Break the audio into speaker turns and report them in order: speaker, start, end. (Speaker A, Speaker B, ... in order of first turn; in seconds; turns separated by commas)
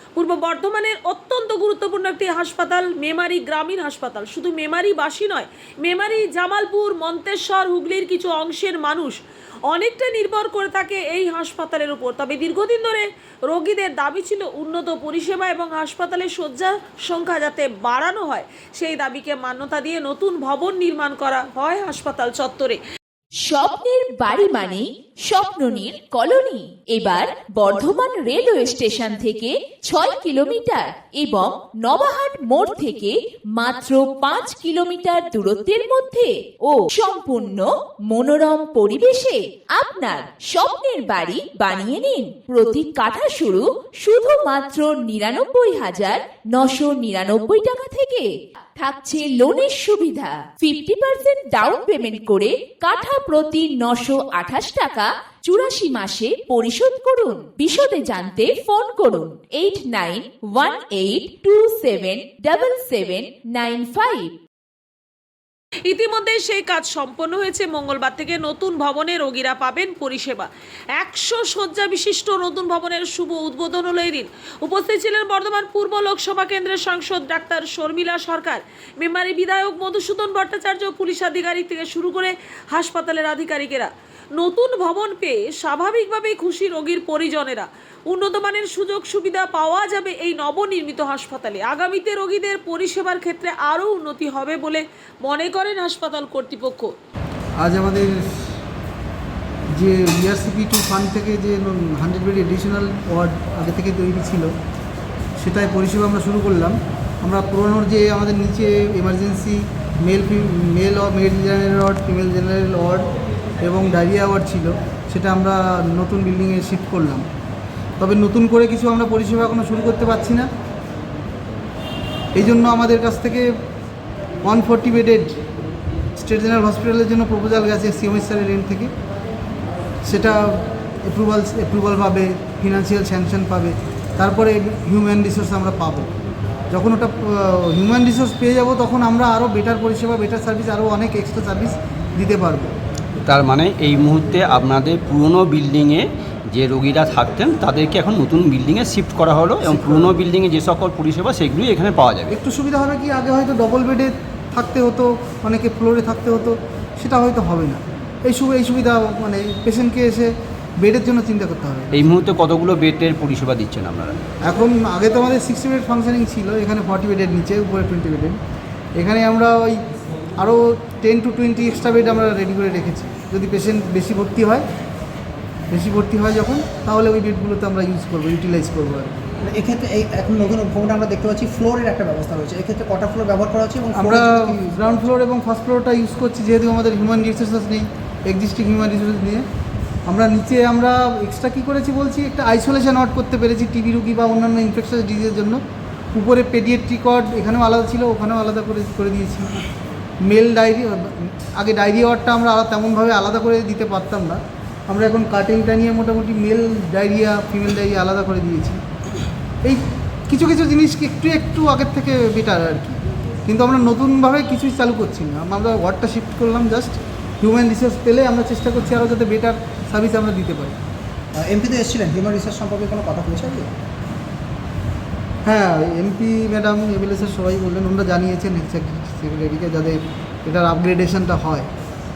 Speaker A: 0.1-22.8, Speaker B: 23.4-64.3, Speaker A: 65.9-96.9, Speaker C: 97.6-98.3, Speaker C: 99.7-104.5, Speaker C: 105.4-113.1, Speaker C: 113.6-117.2, Speaker C: 118.0-120.5, Speaker C: 122.3-123.5, Speaker C: 124.4-125.4, Speaker C: 126.1-128.9, Speaker C: 130.1-136.1, Speaker C: 136.7-142.7, Speaker D: 143.2-152.4, Speaker C: 149.6-150.1, Speaker C: 152.3-162.0, Speaker D: 161.9-164.2, Speaker C: 164.4-168.4, Speaker C: 168.9-169.8, Speaker C: 170.4-174.6, Speaker C: 175.7-179.1, Speaker E: 179.4-185.0, Speaker C: 183.9-189.4, Speaker C: 190.1-195.6, Speaker C: 196.1-199.5, Speaker C: 200.2-208.8, Speaker C: 209.6-220.7, Speaker E: 221.3-223.7, Speaker C: 225.4-231.7